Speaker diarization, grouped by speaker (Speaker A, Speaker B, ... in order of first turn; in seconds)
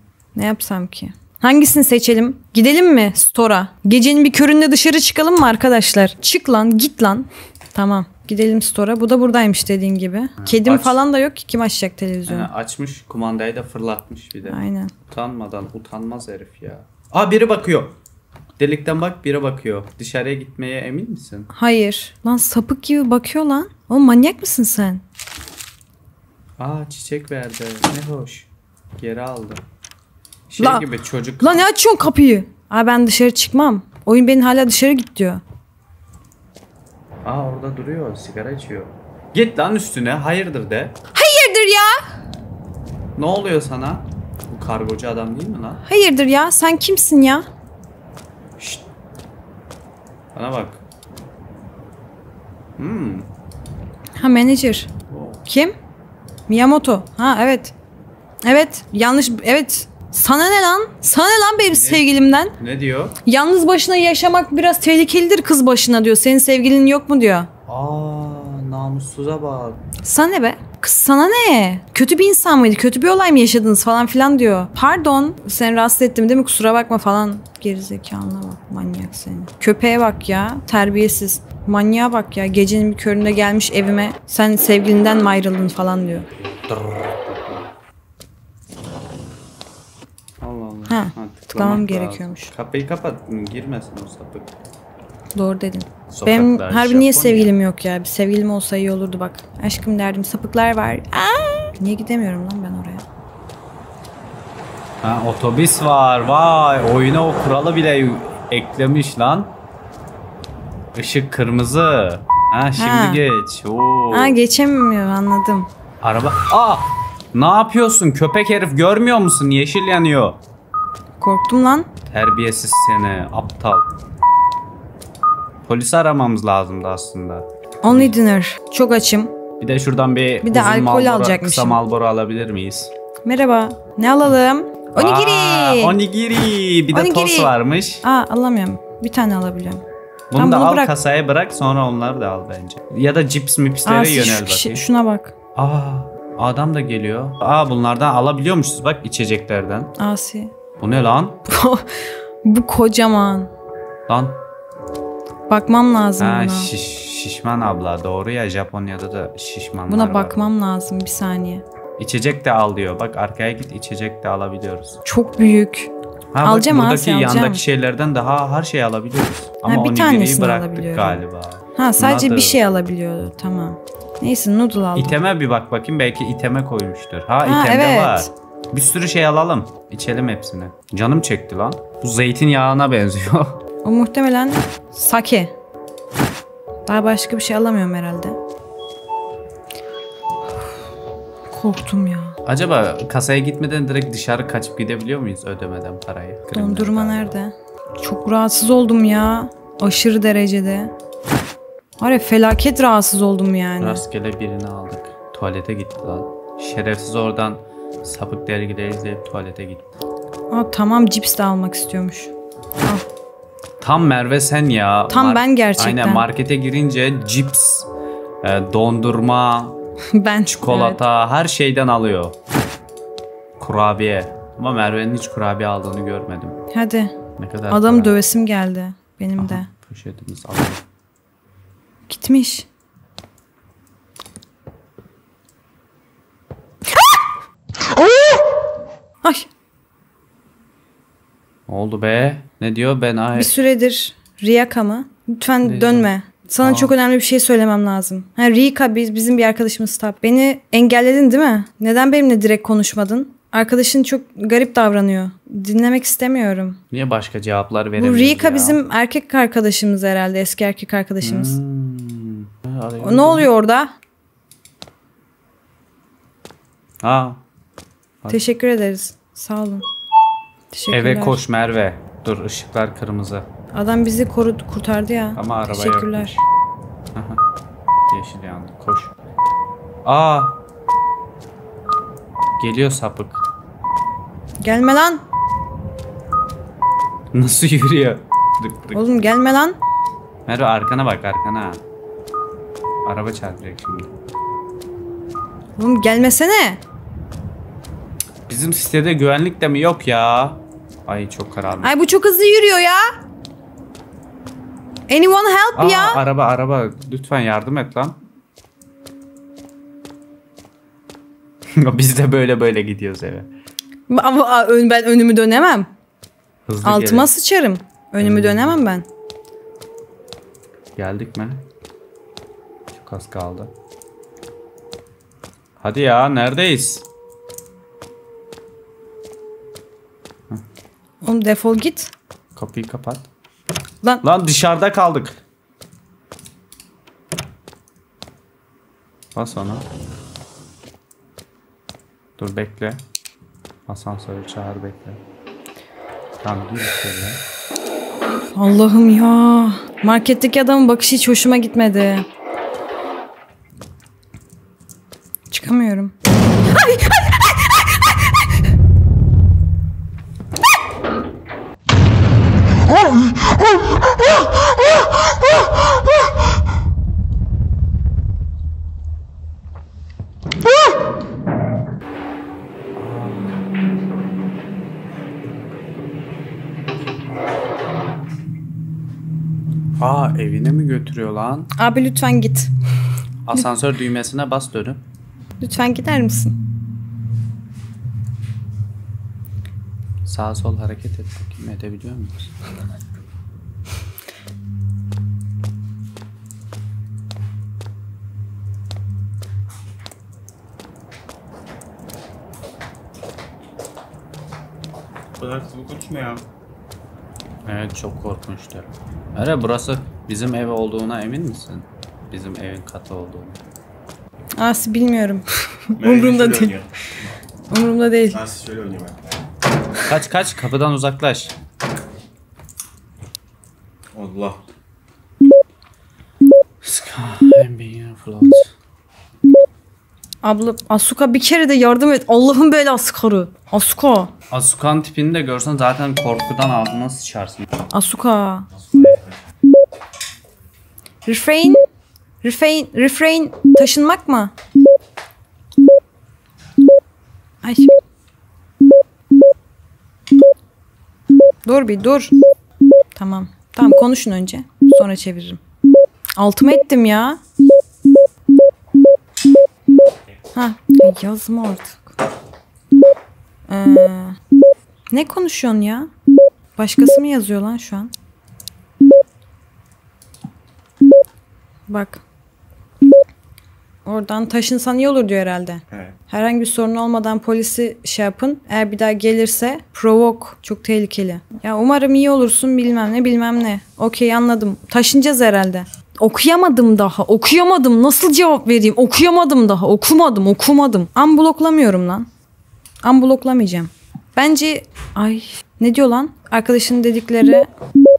Speaker A: 0.3-12.5, 14.5-14.9, 21.5-25.0, 30.6-30.9, 31.4-35.4, 41.1-42.0, 45.9-47.5, 54.2-54.9, 55.5-55.8, 56.5-57.7, 58.4-62.5, 63.2-67.5, 70.0-86.3, 90.9-92.5, 95.3-103.0, 112.8-113.2, 114.1-115.7, 121.2-121.9, 127.8-129.3, 130.4-131.8, 133.2-136.0, 136.9-139.8, 140.4-140.9, 143.8-145.3, 150.0-150.5, 151.5-153.5, 155.5-156.7, 159.9-161.6, 165.1-165.9, 166.4-167.6, 169.7-171.2, 171.8-175.2, 177.4-178.3, 183.8-185.5, 186.9-188.4, 191.5-192.4, 196.5-200.9, 202.0-204.0, 210.5-212.3, 215.1-216.3, 220.1-221.0, 226.7-227.2, 227.7-229.7, 232.1-232.7, 239.2-239.5, 243.3-256.8, 258.0-261.6, 263.0-263.9, 268.3-269.9, 270.7-271.4, 273.7-276.4, 284.6-285.2, 288.9-289.8, 295.8-296.8, 301.8-303.1, 305.1-306.2, 314.1-315.9, 316.8-319.1, 331.2-332.1, 348.6-352.3, 355.5-356.1, 356.8-357.7, 381.8-382.7, 385.6-386.6, 414.6-416.8, 417.7-418.4, 430.4-434.3, 437.9-438.7, 441.2-441.8, 442.4-444.5, 447.6-447.9, 451.6-452.3, 453.1-455.6, 456.4-457.4, 460.6-462.1, 463.7-464.4, 465.1-466.1, 466.8-468.1, 471.9-472.2, 474.1-492.3, 493.0-497.7
Speaker B: 10.4-11.0, 12.3-18.0, 18.6-21.5, 26.6-29.6, 30.5-31.7, 37.2-41.0, 43.2-45.8, 48.6-48.8, 50.4-50.8, 52.8-53.3, 55.1-55.4, 61.7-63.2, 67.7-69.8, 86.4-87.7, 90.4-94.6, 96.1-97.5, 105.0-109.5, 110.9-114.4, 116.0-120.4, 122.1-123.9, 125.6-128.2, 129.6-132.9, 134.9-138.0, 140.3-144.8, 145.6-149.9, 150.8-151.5, 154.1-154.4, 156.2-160.5, 162.0-165.0, 166.3-172.6, 175.0-183.6, 192.4-197.3, 203.8-209.9, 213.8-217.9, 218.4-219.8, 220.5-222.4, 223.6-226.6, 227.4-228.2, 229.4-230.8, 241.7-243.5, 245.6-246.1, 246.6-246.9, 256.9-258.8, 261.2-263.5, 267.0-267.4, 270.9-273.5, 275.4-276.4, 277.1-277.4, 278.1-279.1, 280.1-280.6, 282.6-283.4, 287.3-289.1, 290.5-291.8, 293.1-294.1, 298.5-301.9, 305.8-308.2, 311.7-313.5, 316.7-317.3, 318.2-318.8, 321.0-321.6, 322.9-323.7, 325.8-327.0, 332.6-333.3, 334.2-335.4, 339.4-339.9, 342.4-343.0, 343.9-345.2, 346.4-347.4, 372.9-373.6, 380.0-381.7, 383.5-385.0, 390.2-392.5, 407.6-413.6, 420.1-421.5, 426.8-428.7, 434.5-437.7
Speaker C: 405.4-406.4, 416.0-417.3, 418.3-419.2, 424.1-424.6, 438.7-439.4, 475.9-476.2